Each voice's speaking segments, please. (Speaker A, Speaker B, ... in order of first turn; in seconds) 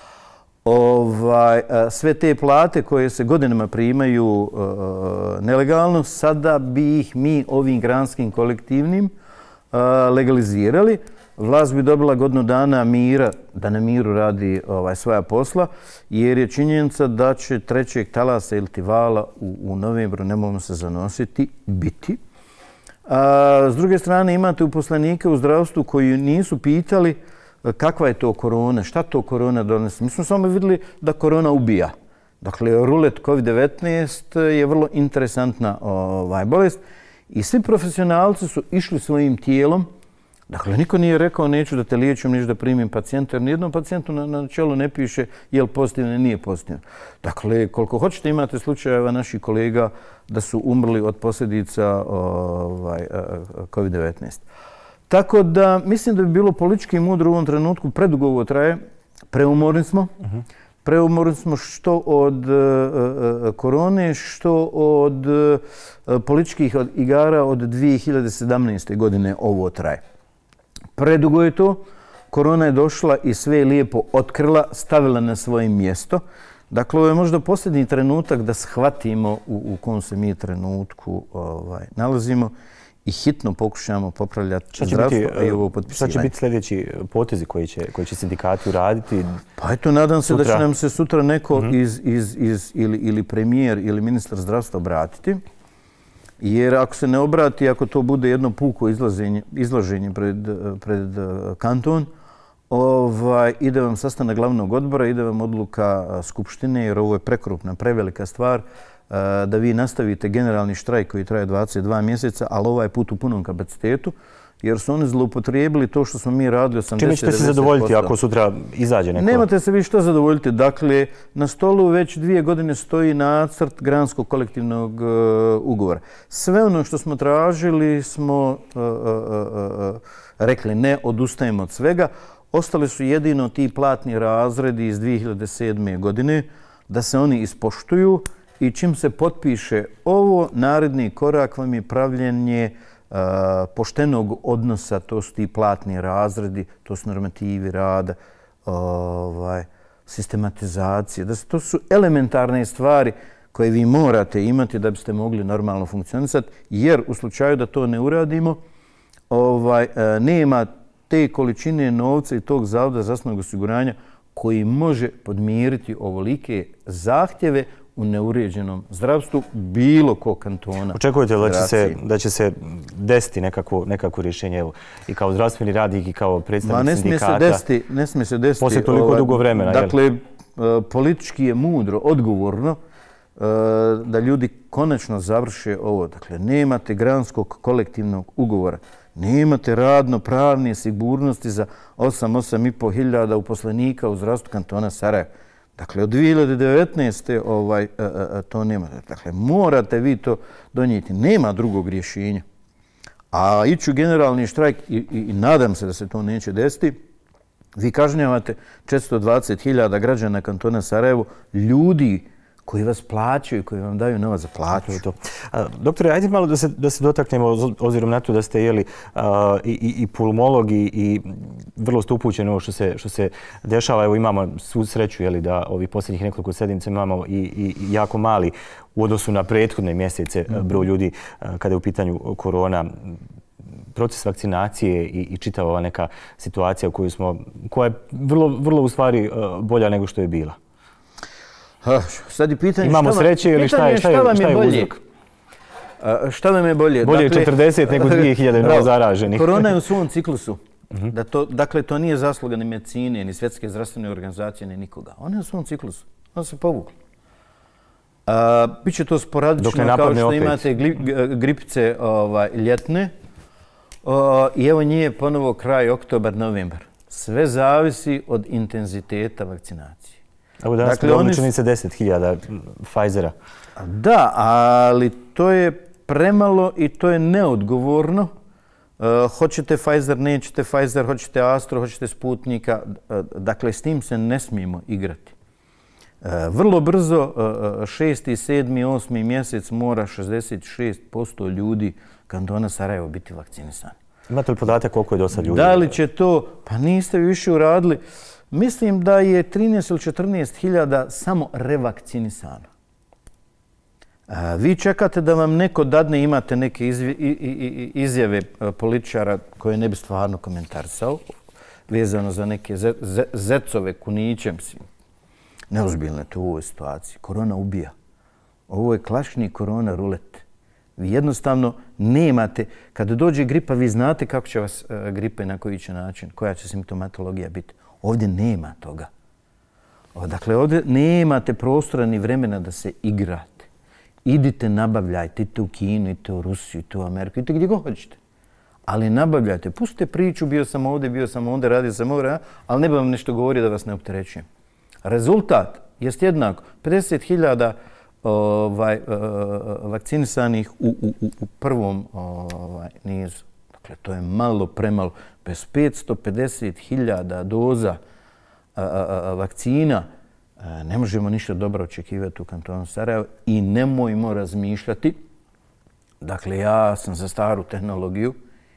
Speaker A: 0.6-9.1, 9.7-22.2, 23.1-39.9, 40.5-54.4, 55.1-58.8, 59.3-60.1, 60.8-70.0, 71.0-82.5, 83.0-86.3, 89.6-95.4, 96.4-102.1, 102.7-118.1, 119.1-158.6, 159.3-172.0, 176.6-182.8, 183.4-202.4, 203.3-207.0, 207.8-215.0, 241.8-244.9, 246.0-256.9, 258.3-263.1, 264.0-270.2, 270.8-271.5, 273.8-278.3, 279.0-285.3, 286.2-294.0, 295.3-298.0, 298.5-302.7, 304.3-311.2, 311.9-314.9, 315.7-317.9, 318.7-320.4, 321.0-329.1, 330.1-333.7, 334.2-338.2, 338.9-344.4, 345.0-358.0, 358.8-360.1, 360.6-365.2, 366.2-368.4
Speaker B: 84.7-89.4, 90.3-90.6, 117.0-119.4, 170.9-177.6, 178.6-179.9, 214.8-233.1, 233.9-240.6, 242.8-245.0, 247.0-249.7, 259.6-260.6, 270.6-273.3, 294.3-295.9